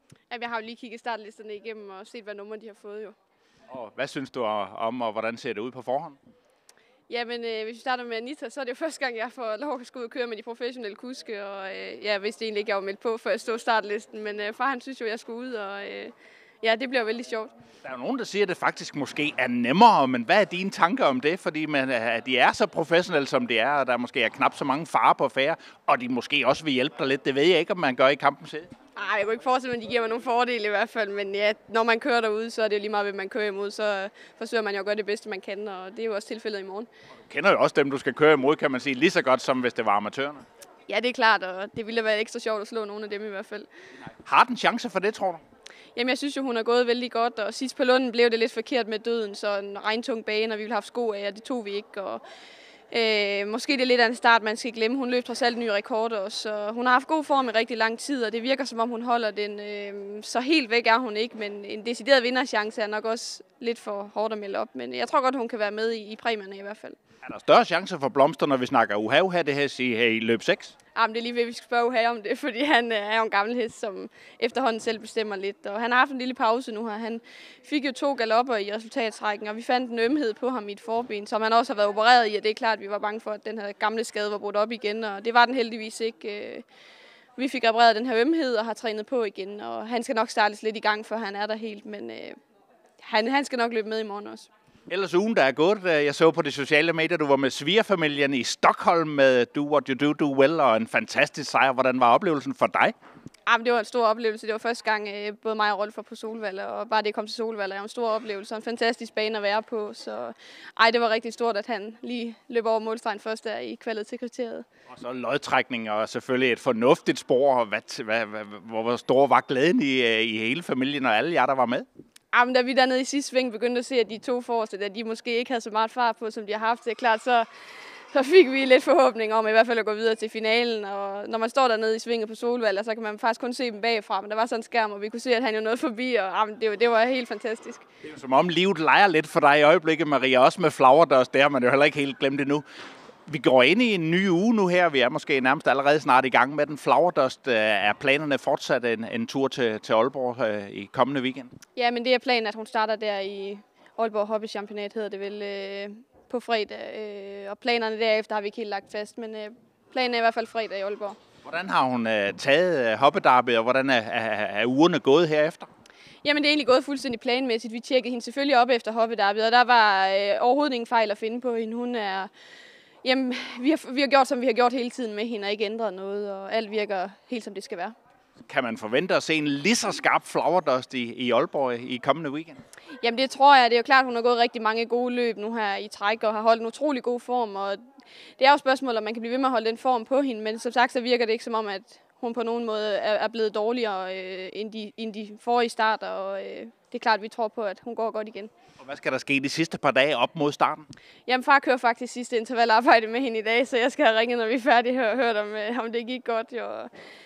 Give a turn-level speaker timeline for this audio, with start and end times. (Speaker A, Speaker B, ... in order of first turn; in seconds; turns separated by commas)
Speaker A: 0.3-3.2, Speaker B: 3.7-6.2, Speaker A: 7.1-17.5, Speaker B: 17.8-28.7, Speaker A: 29.0-36.9, Speaker B: 37.3-40.4, Speaker A: 40.9-43.7, Speaker B: 44.2-45.4, Speaker A: 46.0-52.2, Speaker A: 52.9-67.0, Speaker B: 67.2-70.8, Speaker A: 71.0-86.7, Speaker A: 87.4-92.4, Speaker A: 93.0-94.5, Speaker B: 94.9-102.9, Speaker A: 103.5-114.7, Speaker B: 114.9-121.9, Speaker A: 122.3-127.5, Speaker A: 128.1-137.8, Speaker B: 138.0-142.6, Speaker B: 143.3-151.5, Speaker A: 151.8-161.2, Speaker B: 161.4-165.7, Speaker A: 166.2-172.3, Speaker A: 173.0-177.9, Speaker B: 178.5-182.6, Speaker A: 183.0-187.8, Speaker A: 188.4-198.5, Speaker B: 198.8-200.9, Speaker A: 201.3-206.9